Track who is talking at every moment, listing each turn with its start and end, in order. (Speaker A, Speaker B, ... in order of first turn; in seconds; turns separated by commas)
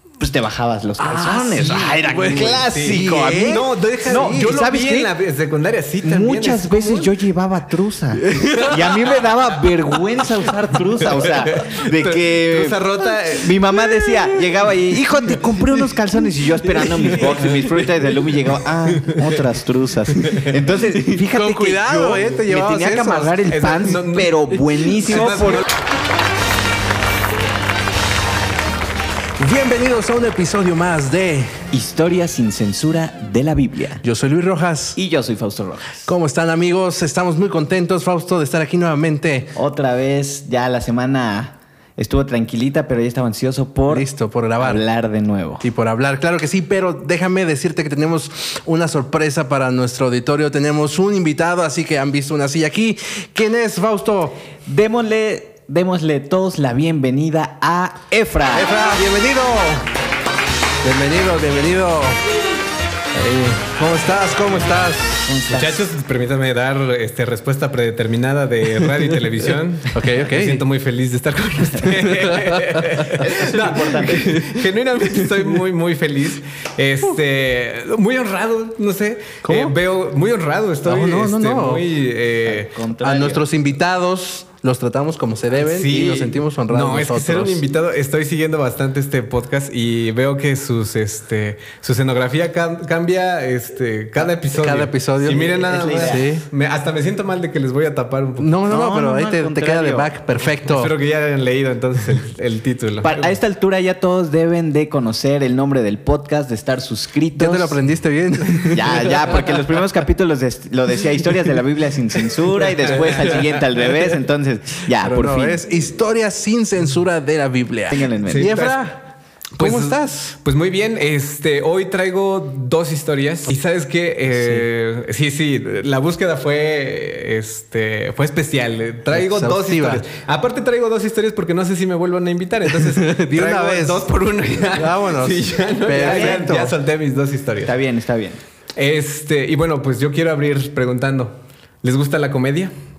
Speaker A: 0.2-5.1, Speaker B: 1.0-4.6, Speaker C: 2.3-7.1, Speaker A: 6.0-25.6, Speaker B: 8.2-9.1, Speaker C: 11.6-13.6, Speaker B: 16.8-17.4, Speaker B: 20.9-23.4, Speaker C: 23.5-24.5, Speaker C: 25.1-25.6, Speaker B: 25.1-25.6, Speaker B: 29.4-31.6, Speaker A: 31.7-34.0, Speaker B: 34.0-35.0, Speaker A: 34.9-36.1, Speaker B: 36.0-39.5, Speaker A: 39.5-45.6, Speaker B: 43.9-44.8, Speaker B: 45.6-54.4, Speaker A: 54.7-58.8, Speaker B: 58.5-59.9, Speaker B: 60.8-62.2, Speaker B: 63.1-65.3, Speaker A: 65.2-65.8, Speaker C: 65.5-82.7, Speaker B: 69.9-70.6, Speaker B: 71.8-73.1, Speaker A: 73.0-74.3, Speaker B: 74.1-74.6, Speaker B: 79.4-79.8, Speaker B: 80.8-81.9, Speaker A: 82.5-83.4, Speaker B: 83.0-87.6, Speaker C: 85.5-98.5, Speaker B: 94.2-96.5, Speaker A: 95.2-96.2, Speaker B: 98.4-100.9, Speaker A: 98.7-100.1, Speaker C: 100.6-103.3, Speaker A: 103.0-107.8, Speaker B: 107.3-109.7, Speaker A: 108.7-115.6, Speaker B: 114.9-119.0, Speaker A: 117.9-118.6, Speaker C: 118.3-118.8, Speaker C: 119.5-137.7, Speaker B: 119.6-120.3, Speaker B: 124.3-124.6, Speaker B: 129.1-130.0, Speaker B: 132.7-134.1, Speaker B: 134.7-136.7, Speaker A: 136.1-136.5, Speaker A: 137.6-138.4, Speaker C: 138.8-142.7